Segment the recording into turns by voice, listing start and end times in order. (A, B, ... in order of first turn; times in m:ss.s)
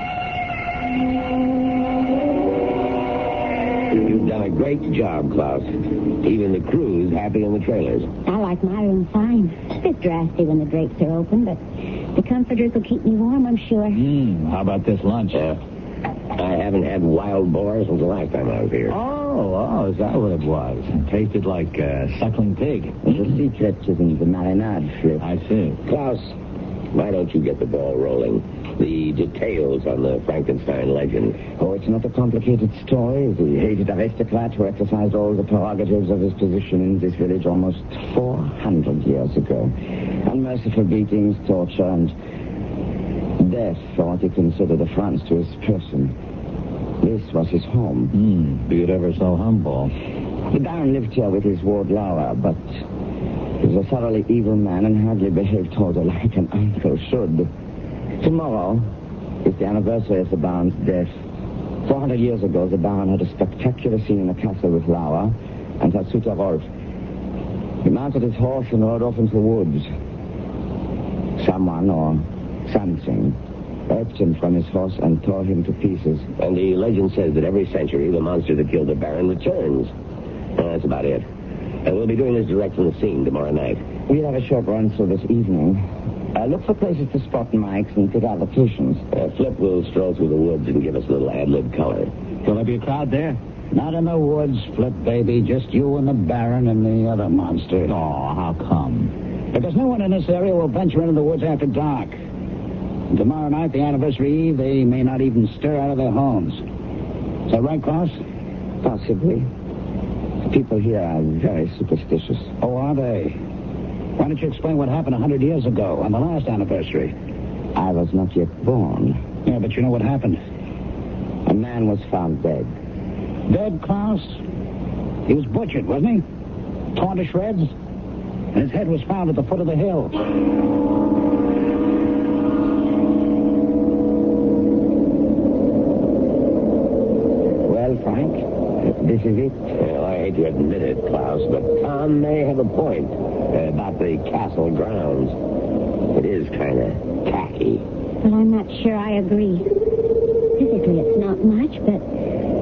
0:03.9-0:08.1 A
0:08.3-0:11.6 B
0:12.2-0:14.1 B
0:13.9-0:15.4 C
0:15.3-0:15.6 A
0:16.4-0:19.0 A
0:18.9-0:23.0 C
0:23.0-0:25.3 D
0:25.2-0:25.8 C
0:25.9-0:26.3 A
0:26.9-0:31.4 A
0:31.6-0:39.7 D
0:40.3-0:42.1 D
0:43.4-0:46.1 D
0:47.0-0:48.1 D
0:48.1-0:49.9 C
0:50.5-0:52.6 D
0:53.6-0:57.5 D
0:58.2-0:58.8 D
0:59.4-1:01.1 D
1:01.8-1:06.6 D
1:07.8-1:09.9 D
1:11.4-1:13.4 D
1:13.9-1:16.3 D
1:16.4-1:19.9 A
1:20.6-1:21.3 A
1:21.8-1:23.8 A
1:24.1-1:25.8 D
1:26.4-1:29.0 D
1:29.1-1:32.1 A
1:32.4-1:33.4 C
1:33.7-1:37.9 E
1:37.9-1:39.1 C
1:39.5-1:42.2 E
1:43.1-1:46.6 E
1:47.5-1:48.2 E
1:48.8-1:49.5 D
1:50.5-1:52.5 D
1:52.6-1:53.4 E
1:54.2-1:57.1 E
1:57.8-1:59.2 D
1:59.4-2:00.4 E
2:01.5-2:02.7 D
2:03.5-2:04.4 E
2:05.3-2:06.2 E
2:06.9-2:07.7 E
2:08.5-2:10.2 E
2:17.7-2:19.6 D
2:19.8-2:25.4 A
2:26.1-2:27.8 A
2:28.2-2:29.7 B
2:30.6-2:32.0 B